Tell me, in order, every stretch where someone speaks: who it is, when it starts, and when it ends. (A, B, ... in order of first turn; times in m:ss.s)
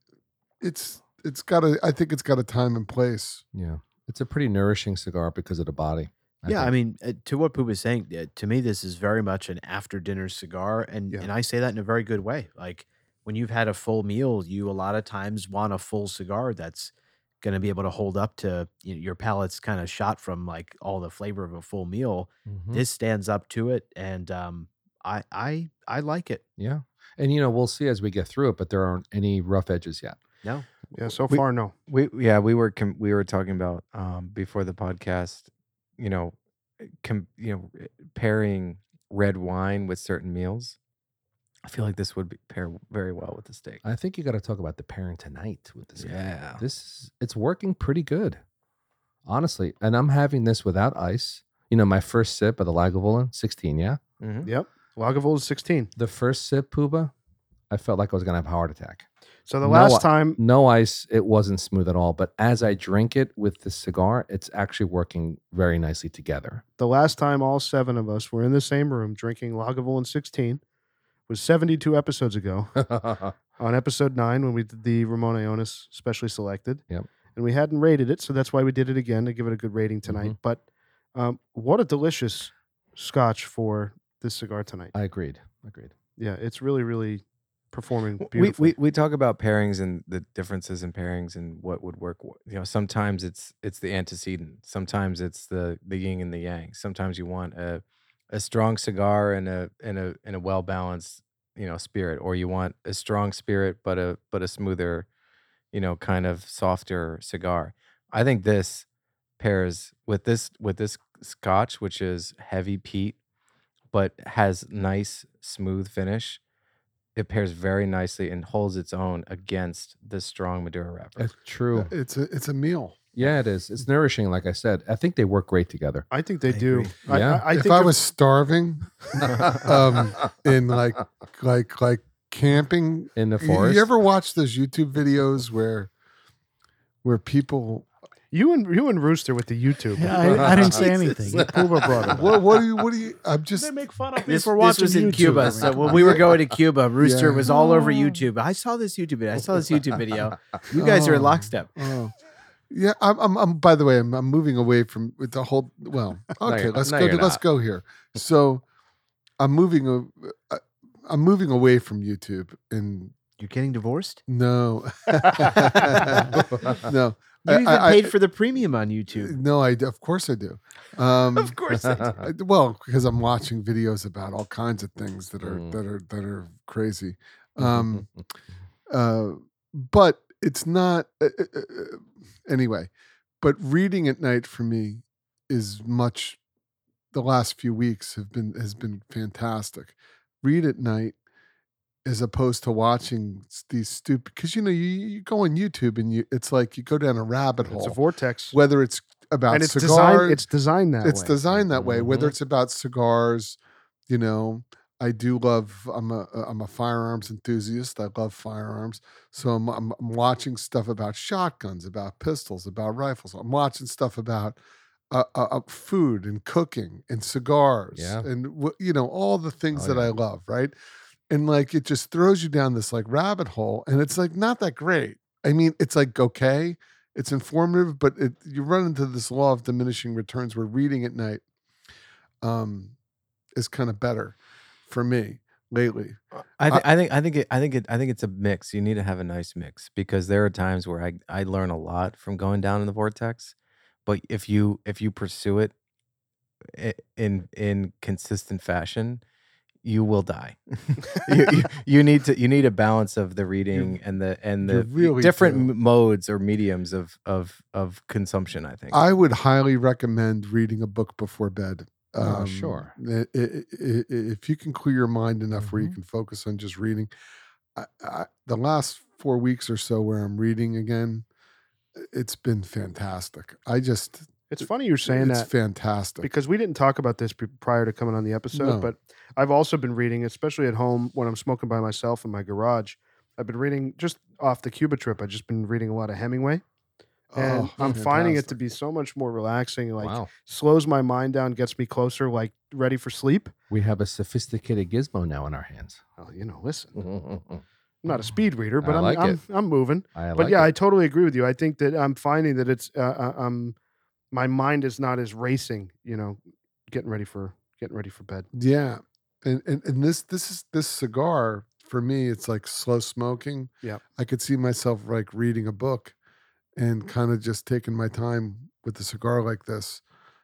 0:00.6-0:03.4 A
0:03.5-0:06.7 B
0:06.4-0:26.4 C
0:22.4-0:22.8 B
0:26.6-0:30.2 B
0:30.9-0:31.7 D
0:31.3-0:40.8 E
0:41.6-0:43.8 E
0:43.8-0:48.4 B
0:46.0-0:46.6 E
0:49.2-0:54.0 B
0:54.2-0:54.5 E
0:54.4-0:55.9 D
0:56.0-0:57.1 B
0:57.7-0:59.0 B
0:59.5-1:00.4 D
0:59.6-1:06.6 B
1:06.8-1:10.6 D
1:11.3-1:12.8 D
1:12.8-1:13.3 B
1:13.6-1:16.8 D
1:17.3-1:20.6 D
1:20.1-1:20.3 B
1:21.1-1:24.9 D
1:24.9-1:25.9 B
1:26.2-1:28.7 D
1:28.2-1:45.1 E
1:45.7-1:48.8 E
1:49.4-1:53.2 E
1:53.9-1:56.4 E
1:57.2-2:01.2 E
2:01.2-2:01.9 B
2:01.7-2:03.0 A
2:03.1-2:06.1 B
2:06.1-2:08.0 D
2:06.5-2:07.0 C
2:07.1-2:07.4 B
2:07.5-2:15.9 A
2:13.2-2:13.9 B
2:17.0-2:17.9 A
2:18.3-2:20.8 D
2:20.0-2:22.5 F
2:20.2-2:22.1 B
2:22.1-2:23.7 A
2:23.5-2:26.2 F
2:24.2-2:31.7 C
2:25.9-2:26.2 A
2:27.0-2:27.6 A
2:30.7-2:32.1 A
2:32.7-2:38.6 A
2:36.4-2:37.4 B
2:39.4-2:43.1 A
2:43.4-2:44.2 C
2:44.3-2:48.1 A
2:45.5-2:46.1 C
2:46.6-2:46.8 B
2:47.5-2:49.4 C
2:49.1-2:58.1 A
2:51.4-2:52.2 C
2:51.9-2:52.1 B
2:55.4-2:55.8 B
2:57.6-2:58.1 B
2:58.9-3:06.4 A
3:07.1-3:11.1 A
3:12.0-3:18.0 A
3:17.7-3:18.6 D
3:18.5-3:20.4 A
3:19.5-3:21.4 D
3:21.0-3:34.6 A
3:21.7-3:22.3 B
3:35.1-3:40.7 A
3:38.0-3:38.3 B
3:39.7-3:40.1 B
3:41.3-3:51.4 A
3:52.4-3:52.9 A
3:53.6-3:54.4 A
3:54.9-3:56.8 A
3:56.6-4:03.5 E
4:04.0-4:05.7 E
4:06.7-4:09.2 E
4:09.8-4:19.0 E
4:13.7-4:14.0 A
4:14.6-4:15.7 A
4:18.9-4:27.1 A
4:22.2-4:22.9 B
4:25.6-4:25.9 B
4:27.7-4:31.2 A
4:32.0-4:36.3 A
4:34.5-4:35.5 D
4:36.2-4:46.6 D
4:38.5-4:38.9 A
4:47.3-4:48.6 A
4:47.4-4:53.5 D
4:50.0-4:50.3 B
4:53.7-4:56.0 B
4:56.2-4:57.0 D
4:56.9-4:57.6 B
4:58.0-5:03.7 D
4:58.8-4:59.4 B
5:00.1-5:00.7 B
5:04.3-5:08.5 D
5:08.5-5:16.1 A
5:16.8-5:20.0 A